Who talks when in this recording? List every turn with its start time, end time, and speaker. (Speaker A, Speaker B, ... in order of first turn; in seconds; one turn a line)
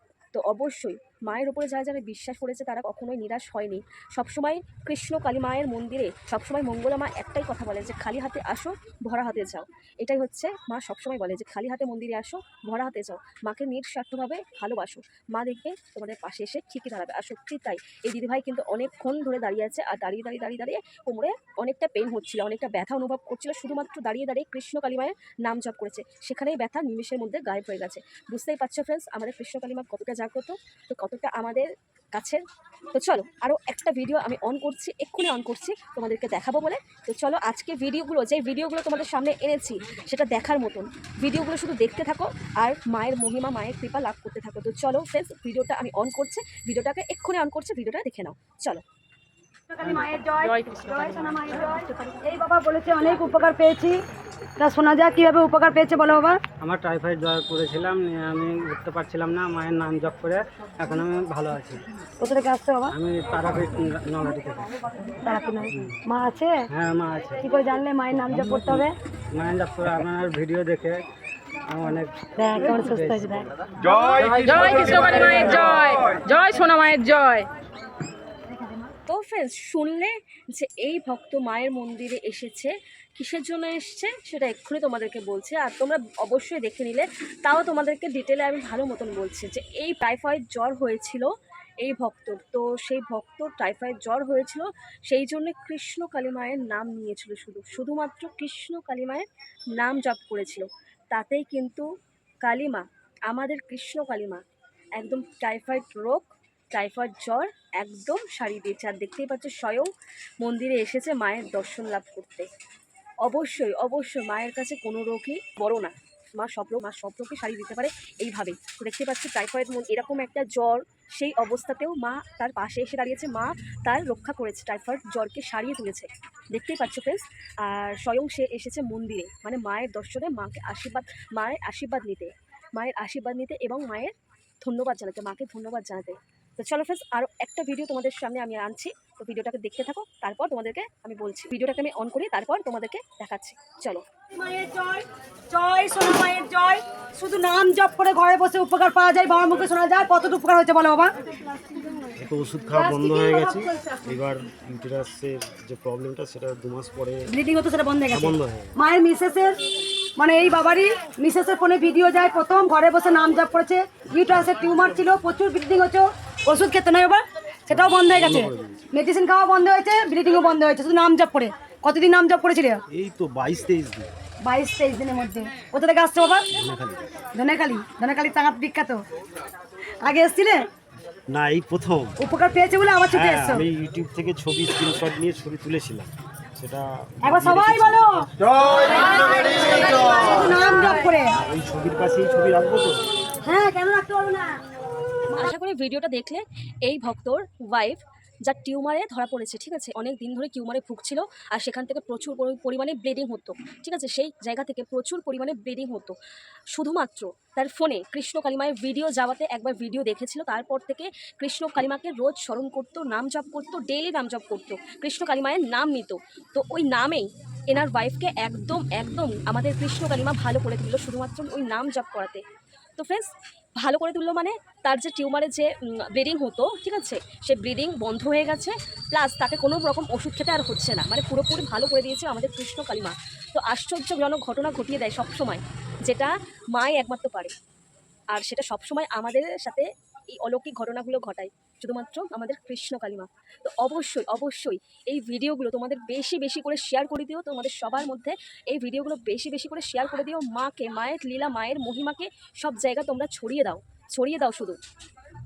Speaker A: 0.3-32.4
Speaker A: 32.9-48.8
Speaker B: 49.7-54.0
Speaker B: 54.6-56.4
Speaker C: 56.6-61.8
Speaker B: 62.2-62.9
Speaker C: 62.9-64.8
Speaker B: 65.2-66.7
Speaker C: 65.7-66.0
Speaker C: 66.7-67.5
Speaker B: 67.4-68.9
Speaker C: 68.4-68.8
Speaker C: 69.3-71.0
Speaker C: 71.7-75.8
Speaker B: 72.4-73.5
Speaker D: 75.1-77.5
Speaker A: 79.1-91.3
Speaker A: 91.8-101.9
Speaker A: 102.4-104.4
Speaker A: 105.0-112.5
Speaker A: 113.2-144.0
Speaker B: 144.3-151.1
Speaker E: 152.2-157.3
Speaker B: 152.9-153.7
Speaker B: 157.3-159.5
Speaker E: 158.1-158.7
Speaker B: 160.2-172.8
Speaker E: 167.7-168.9
Speaker E: 172.9-174.1
Speaker B: 174.4-176.5
Speaker E: 176.5-177.1
Speaker B: 177.3-179.0
Speaker B: 180.0-180.6
Speaker E: 181.3-182.2
Speaker B: 182.2-183.7
Speaker E: 183.1-188.8
Speaker B: 187.2-188.3
Speaker B: 188.9-191.4
Speaker E: 191.4-193.0
Speaker B: 193.4-194.6
Speaker A: 195.3-206.2
Speaker A: 206.7-222.4
Speaker A: 223.0-237.5
Speaker A: 238.3-254.8